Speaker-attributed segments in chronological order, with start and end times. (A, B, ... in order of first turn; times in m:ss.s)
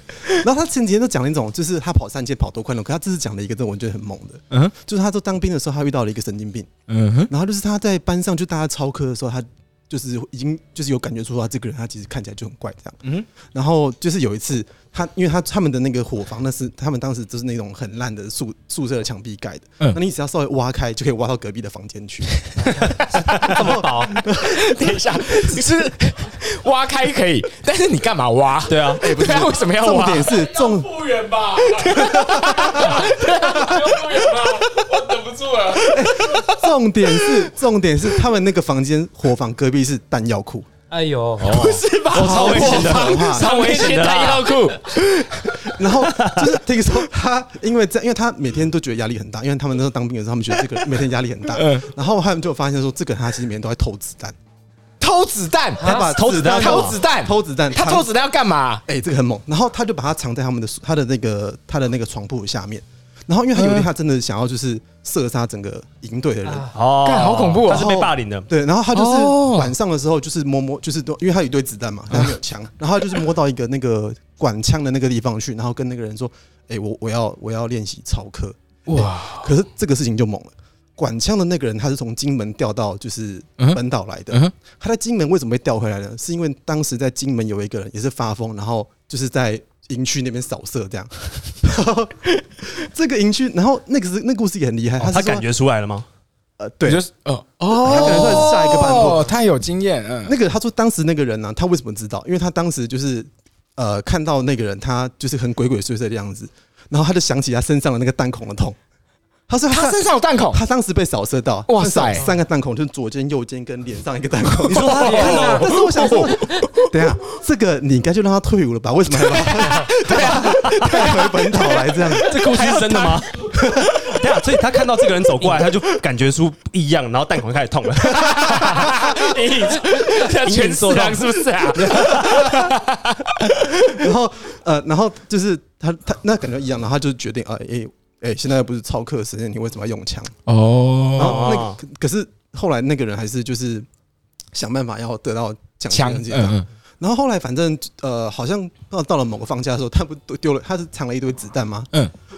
0:00.3-0:06.7 A
0:06.9-0:07.3 B
0:07.3-0:22.5 A
0:22.9-0:23.8 C
0:23.1-0:24.2 D
0:23.4-0:24.8 A
0:24.2-0:30.4 B
0:28.7-0:29.1 C
0:29.0-0:30.9 A
0:30.3-0:32.0 E
0:31.6-0:34.8 B
0:31.9-0:33.0 A
0:32.8-0:36.0 E
0:35.8-0:40.7 A
0:36.2-0:36.6 B
0:40.9-0:41.7 D
0:41.4-0:45.8 B
0:41.5-0:44.7 C
0:42.1-0:43.5 A
0:45.7-0:54.4 A
0:46.0-0:46.5 C
0:51.5-0:51.9 B
0:55.0-0:58.8 B
0:55.8-0:58.1 A
0:56.0-0:57.0 C
0:58.9-1:06.7 A
1:03.6-1:03.9 B
1:06.5-1:06.7 D
1:06.7-1:08.5 C
1:07.0-1:08.1 B
1:08.5-1:35.5 A
1:08.9-1:09.7 B
1:18.9-1:19.5 B
1:35.0-1:36.1 C
1:36.6-1:37.0 A
1:36.9-1:40.3 B
1:37.7-1:39.4 A
1:37.9-1:38.5 C
1:40.2-1:48.8 A
1:49.5-2:02.6 A
1:49.7-1:50.6 B
1:51.7-1:52.3 B
1:54.6-1:56.9 B
1:54.7-1:56.3 C
1:55.1-1:55.6 D
1:59.2-2:04.2 B
2:00.4-2:01.0 C
2:02.2-2:08.9 C
2:03.5-2:04.1 A
2:05.4-2:05.7 B
2:08.1-2:14.0 B
2:08.4-2:09.1 A
2:09.7-2:12.6 C
2:13.9-2:20.4 A
2:20.5-2:21.6 B
2:21.2-2:23.9 A
2:21.2-2:21.8 C
2:24.5-2:31.9 A
2:25.9-2:26.7 B